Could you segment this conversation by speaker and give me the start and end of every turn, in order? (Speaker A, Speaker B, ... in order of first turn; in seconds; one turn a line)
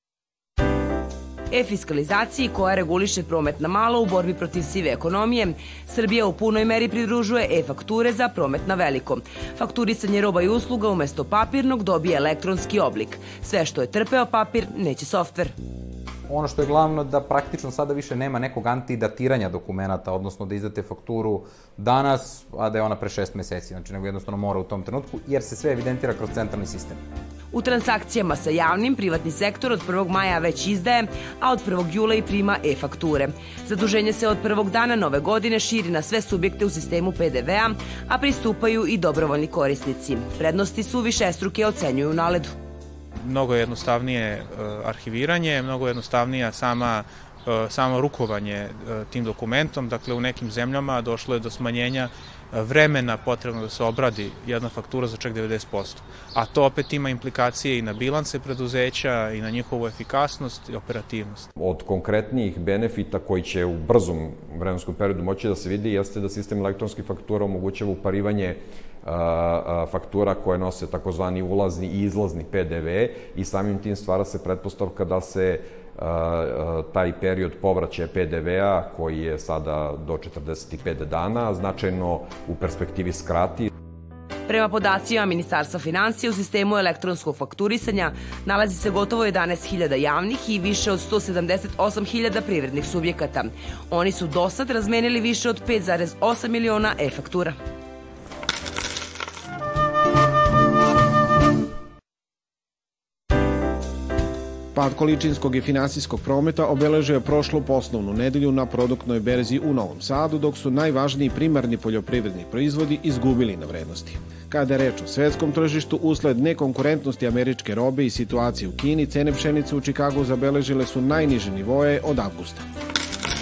Speaker A: 1.5-15.5
Speaker B: 16.3-27.0
Speaker A: 27.5-42.5
Speaker C: 43.2-61.5
Speaker D: 61.5-83.7
Speaker A: 84.5-97.6
Speaker E: 104.7-122.6